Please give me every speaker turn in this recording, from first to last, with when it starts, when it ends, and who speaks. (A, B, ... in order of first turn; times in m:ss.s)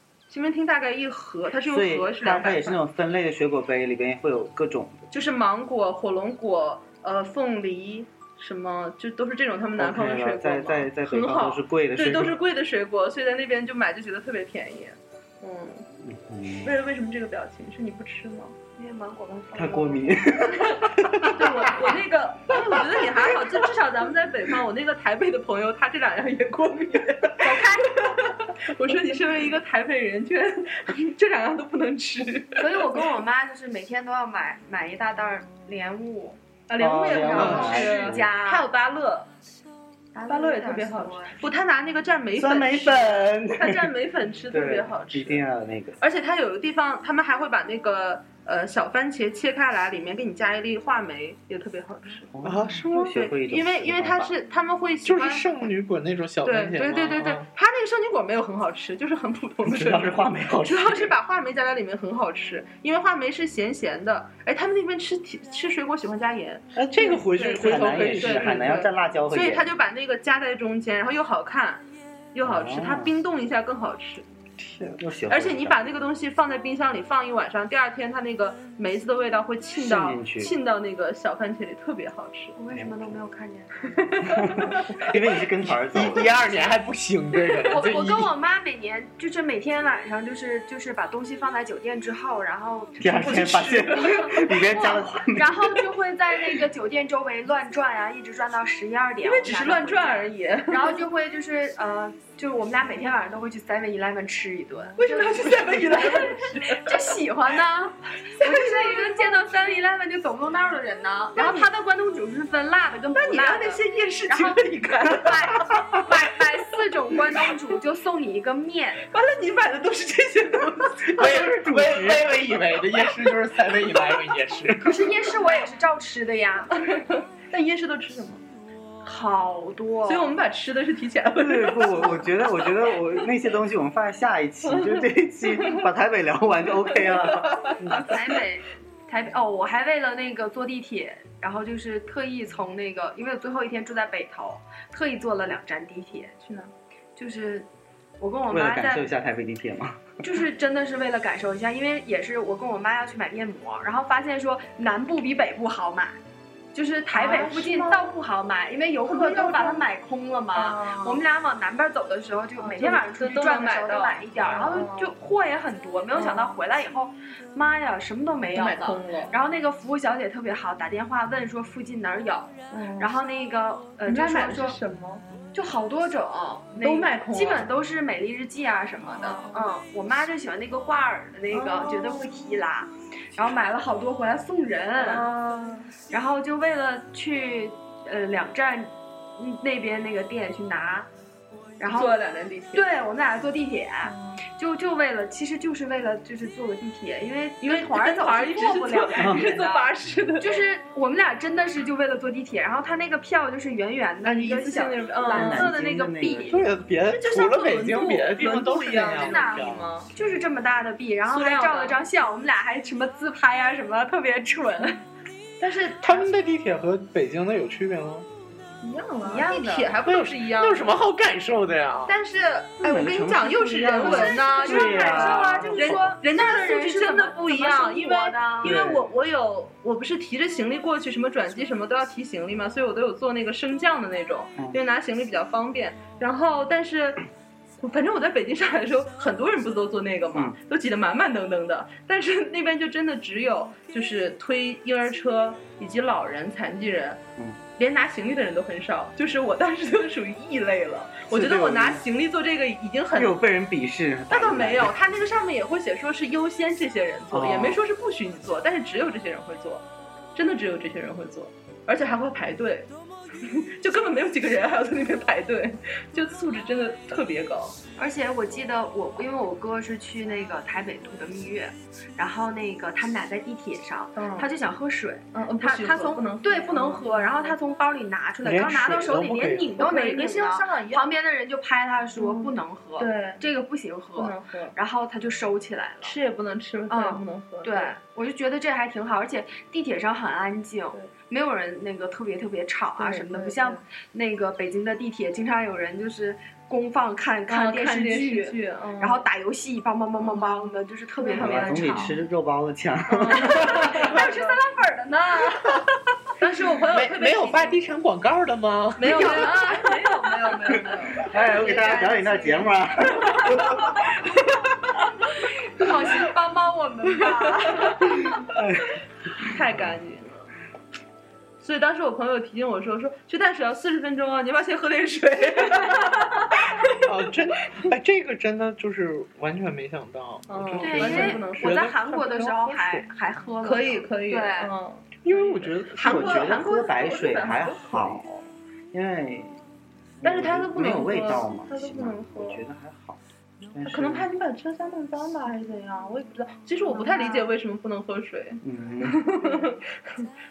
0:00.3-0:02.8 A
0:01.6-0:05.1 B
0:05.1-0:15.8 A
0:09.8-0:12.4 B
0:16.0-0:16.7 B
0:16.6-0:18.6 A
0:18.8-0:20.4 C
0:19.5-0:21.9 B
0:21.2-0:33.0 A
0:27.4-0:28.2 C
0:32.6-0:36.4 C
0:36.7-0:39.3 A
0:36.8-0:38.3 B
0:37.1-0:38.7 C
0:37.3-0:37.8 D
0:40.1-0:41.5 C
0:40.3-0:45.4 A
0:42.4-0:43.9 B
0:44.5-0:46.0 B
0:46.0-0:52.3 A
0:52.3-0:54.4 B
0:52.4-0:53.0 D
0:53.0-0:55.5 A
0:55.0-0:57.5 D
0:56.4-1:14.2 A
0:59.6-1:01.2 B
1:06.8-1:08.8 D
1:06.8-1:09.7 B
1:12.4-1:13.1 B
1:14.6-1:15.0 D
1:15.0-1:15.8 B
1:15.3-1:22.6 A
1:19.8-1:20.5 B
1:22.6-1:24.3 C
1:22.7-1:23.2 B
1:23.9-1:24.9 A
1:24.2-1:26.4 B
1:25.8-1:28.4 D
1:27.7-1:59.0 C
1:33.0-1:35.7 B
1:33.2-1:34.2 A
1:39.2-1:41.0 A
1:45.0-1:47.0 A
1:48.3-1:49.3 A
1:51.4-1:51.7 A
1:53.1-1:56.0 A
1:59.1-2:02.0 A
2:01.1-2:05.2 D
2:01.8-2:02.2 B
2:04.8-2:06.8 C
2:06.9-2:08.4 A
2:09.0-2:10.3 C
2:10.1-2:12.3 A
2:11.4-2:17.8 B
2:14.7-2:15.0 A
2:17.4-2:17.8 A
2:17.8-2:18.1 D
2:17.9-2:26.3 C
2:26.4-2:26.7 A
2:27.2-2:27.7 C
2:28.2-2:29.1 C
2:28.5-2:30.1 B
2:30.2-2:36.2 C
2:36.7-2:54.8 C
2:37.1-2:38.1 A
2:39.0-2:39.9 A
2:40.5-2:41.2 A
2:42.6-2:45.2 A
2:46.1-2:46.5 A
2:48.5-2:49.4 A
2:52.7-2:53.1 A
2:54.1-2:55.2 A
2:55.5-3:05.3 C
2:56.8-2:57.7 A
2:59.0-2:59.7 A
3:01.5-3:02.6 A
3:05.0-3:05.9 A
3:06.0-3:11.1 C
3:11.8-3:12.2 C
3:11.9-3:12.9 A
3:12.8-3:26.5 C
3:14.0-3:14.4 A
3:17.6-3:20.6 A
3:19.2-3:19.5 B
3:24.2-3:26.5 A
3:25.3-3:26.7 B
3:26.5-3:29.9 D
3:27.1-3:30.1 A
3:29.0-3:35.0 C
3:31.3-3:32.0 A
3:35.6-3:36.2 A
3:36.0-3:38.3 D
3:38.8-3:41.0 A
3:39.2-3:40.0 C
3:40.1-3:42.1 D
3:42.1-3:57.2 A
3:42.8-3:46.0 B
3:44.0-3:48.9 C
3:48.7-3:49.0 B
3:57.8-4:07.2 A
4:07.8-4:13.4 A
4:11.3-4:12.1 B
4:13.2-4:15.0 B
4:14.3-4:22.9 A
4:17.3-4:17.8 B
4:23.4-4:27.8 A
4:28.0-4:46.2 C
4:34.2-4:34.5 A
4:35.3-4:37.6 A
4:38.4-4:39.8 D
4:39.7-4:41.1 A
4:42.2-4:43.4 A
4:44.2-4:44.8 A
4:46.0-4:48.0 A
4:46.9-5:02.2 C
4:53.0-4:53.8 A
4:57.5-4:59.2 A
5:00.2-5:02.2 A
5:01.3-5:03.8 B
5:03.1-5:04.6 A
5:03.3-5:05.9 C
5:06.4-5:07.8 A
5:06.9-5:09.6 D
5:09.0-5:11.3 A
5:09.0-5:12.7 C
5:11.3-5:14.0 B
5:13.3-5:14.3 A
5:15.8-5:18.4 C
5:17.1-5:18.3 A
5:18.5-5:18.9 B
5:19.4-5:20.5 A
5:19.4-5:19.9 B
5:21.6-5:27.0 A
5:25.8-5:26.2 C
5:27.0-5:33.1 D
5:30.5-5:31.8 A
5:30.8-5:34.7 C
5:33.6-5:38.4 A
5:35.2-5:36.5 D
5:36.0-5:38.2 B
5:38.9-5:39.6 B
5:40.2-5:43.2 B
5:40.2-5:42.6 A
5:43.7-5:44.3 B
5:43.9-5:50.3 A
5:46.9-5:47.5 C
5:48.6-5:49.2 B